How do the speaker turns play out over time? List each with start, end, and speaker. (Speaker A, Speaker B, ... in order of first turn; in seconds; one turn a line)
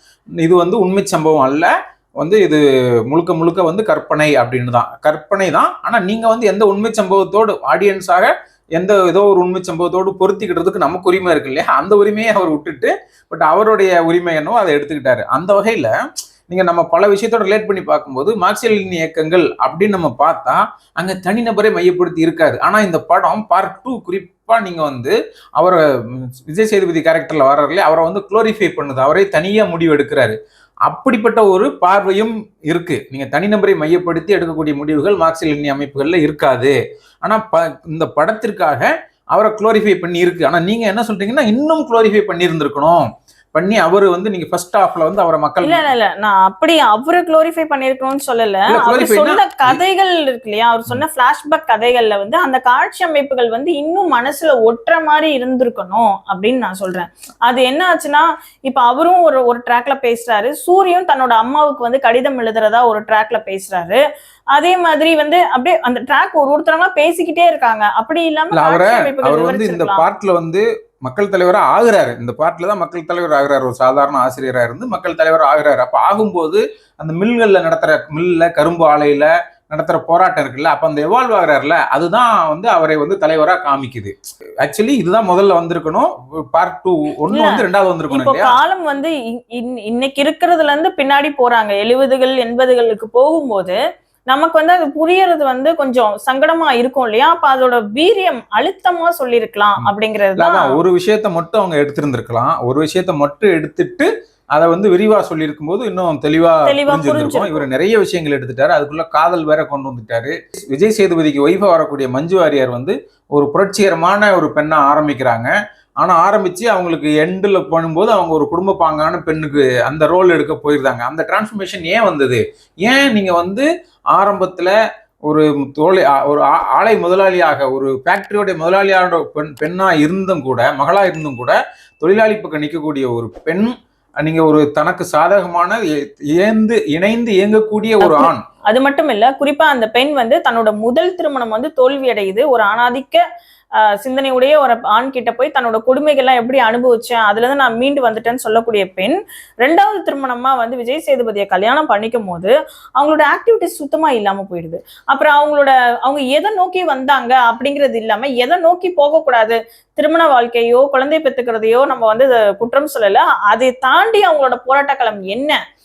Speaker A: 0.4-15.9
Speaker A: 16.5-30.3
Speaker A: 30.9-43.0
Speaker A: 43.5-45.8
Speaker B: 45.6-64.0
Speaker A: 48.7-49.8
Speaker B: 64.5-70.1
Speaker A: 68.5-88.5
Speaker B: 87.3-93.8
Speaker B: 94.3-100.8
Speaker A: 99.8-124.7
Speaker B: 106.7-107.6
Speaker A: 125.3-133.7
Speaker A: 134.2-135.8
Speaker A: 136.3-138.4
Speaker B: 138.0-143.2
Speaker B: 143.8-165.6